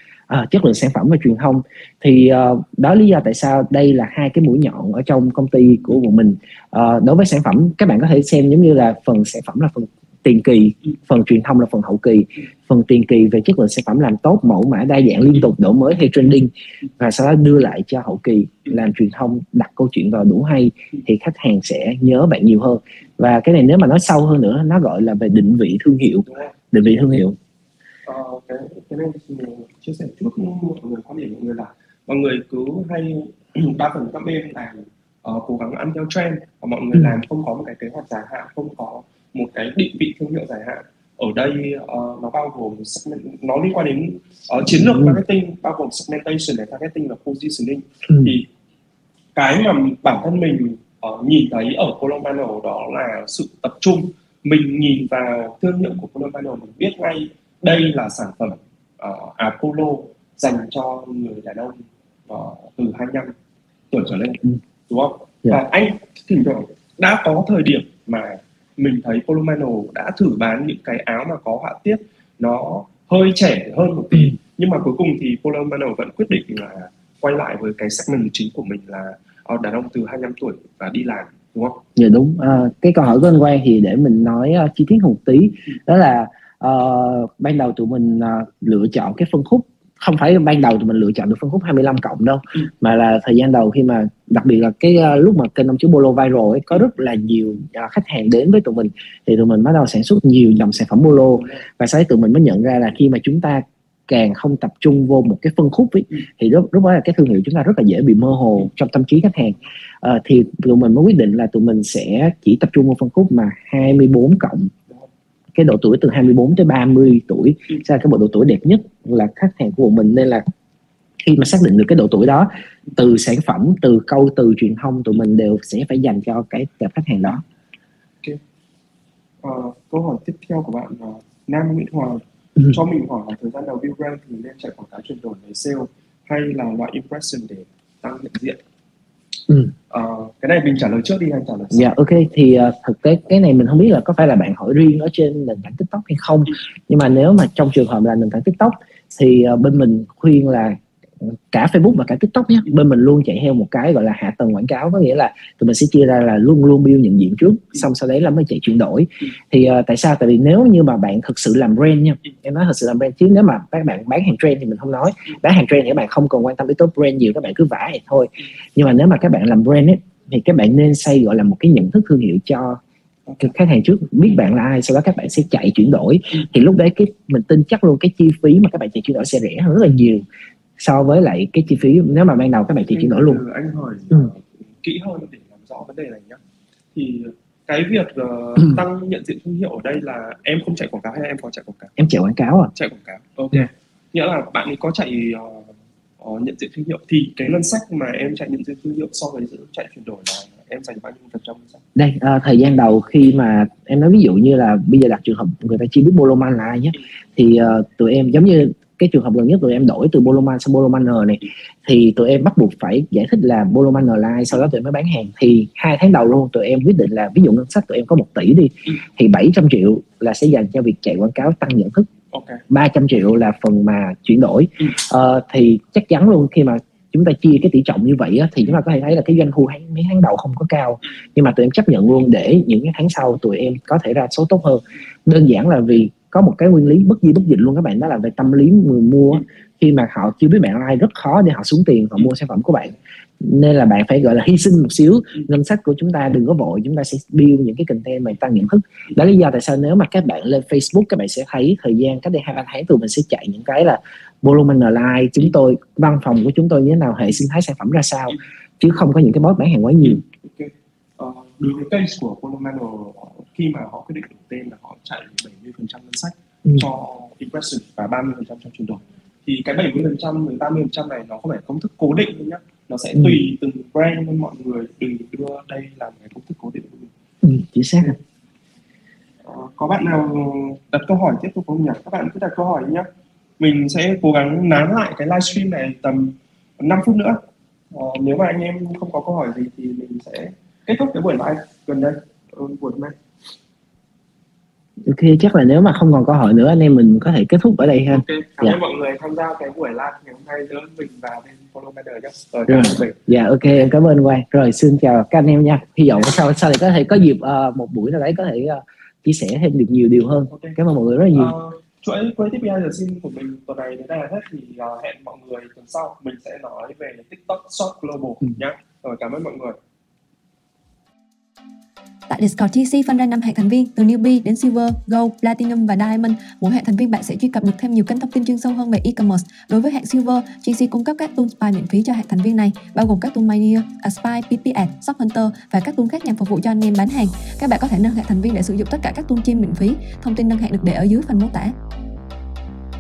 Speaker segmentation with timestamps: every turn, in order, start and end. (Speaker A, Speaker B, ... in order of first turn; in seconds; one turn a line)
Speaker A: 0.3-27.4
Speaker B: 26.3-26.5
Speaker B: 28.1-48.5
Speaker A: 36.9-37.2
Speaker A: 44.7-45.2
Speaker B: 49.4-63.4
Speaker B: 63.9-81.8
Speaker A: 82.0-114.7
Speaker A: 115.5-120.5
Speaker A: 121.2-127.4
Speaker B: 129.4-138.6
Speaker B: 139.9-141.9
Speaker A: 141.7-172.8
Speaker A: 173.4-180.3
Speaker A: 180.8-183.4
Speaker B: 182.9-186.4
Speaker B: 186.9-191.9
Speaker A: 192.0-192.7
Speaker B: 192.8-201.8
Speaker A: 202.0-222.1
Speaker B: 222.3-222.6
Speaker A: 222.7-260.2
Speaker B: 260.0-277.1
Speaker A: 277.4-278.2
Speaker B: 279.4-283.1
Speaker B: 283.6-287.4
Speaker B: 287.9-293.1
Speaker A: 295.1-298.8
Speaker B: 298.1-303.2
Speaker A: 302.7-311.5
Speaker B: 310.5-310.8
Speaker B: 311.3-319.8
Speaker C: 322.3-341.8